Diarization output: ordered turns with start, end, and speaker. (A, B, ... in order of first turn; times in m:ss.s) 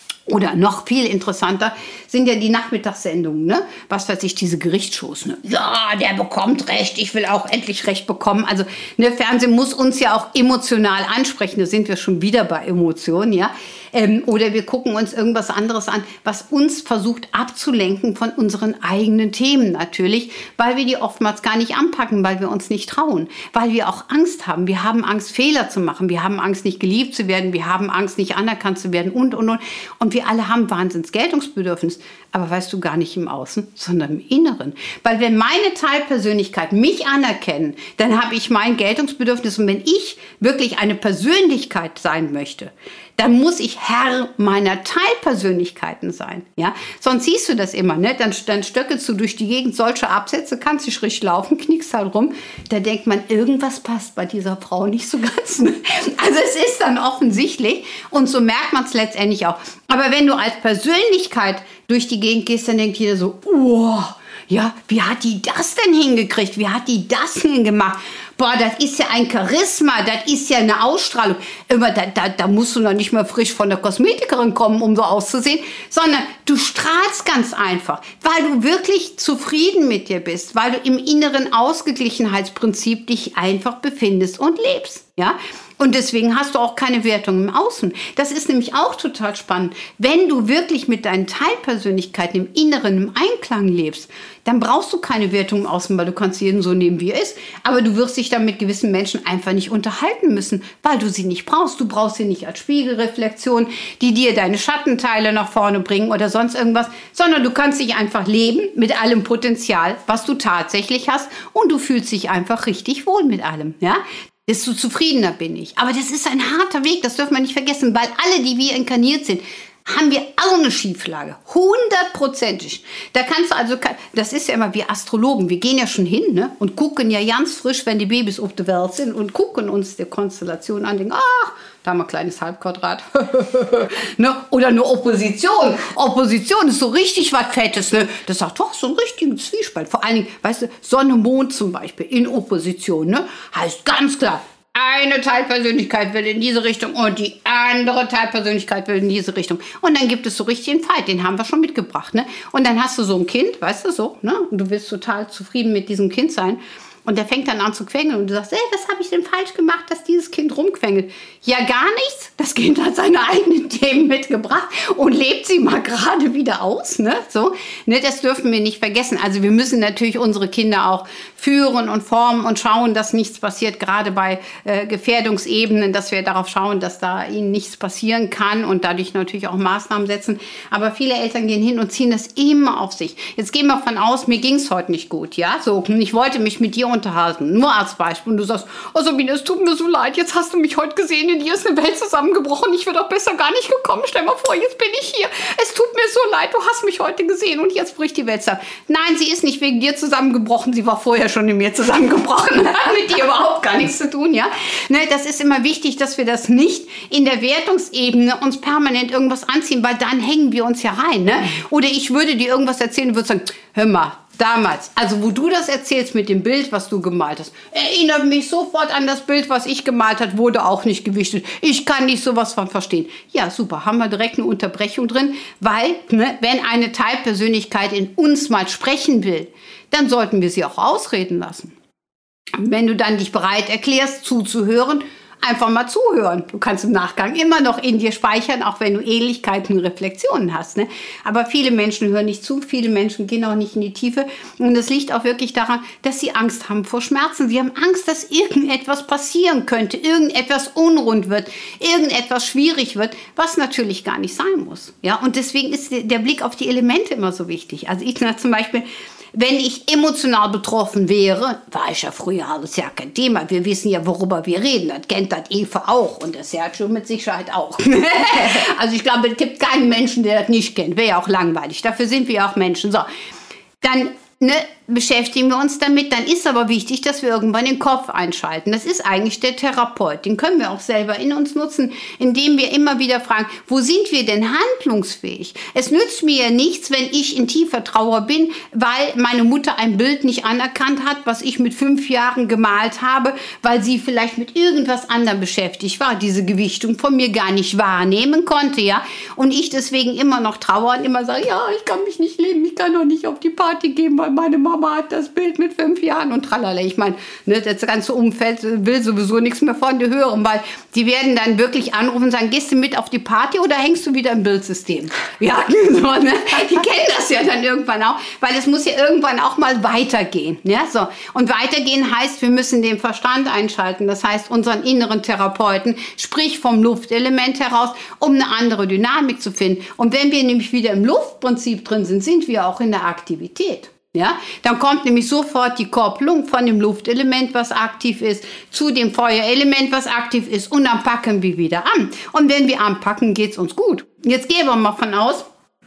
0:00.3-3:51.7 A
3:52.5-4:33.1 A
4:33.8-5:45.4 A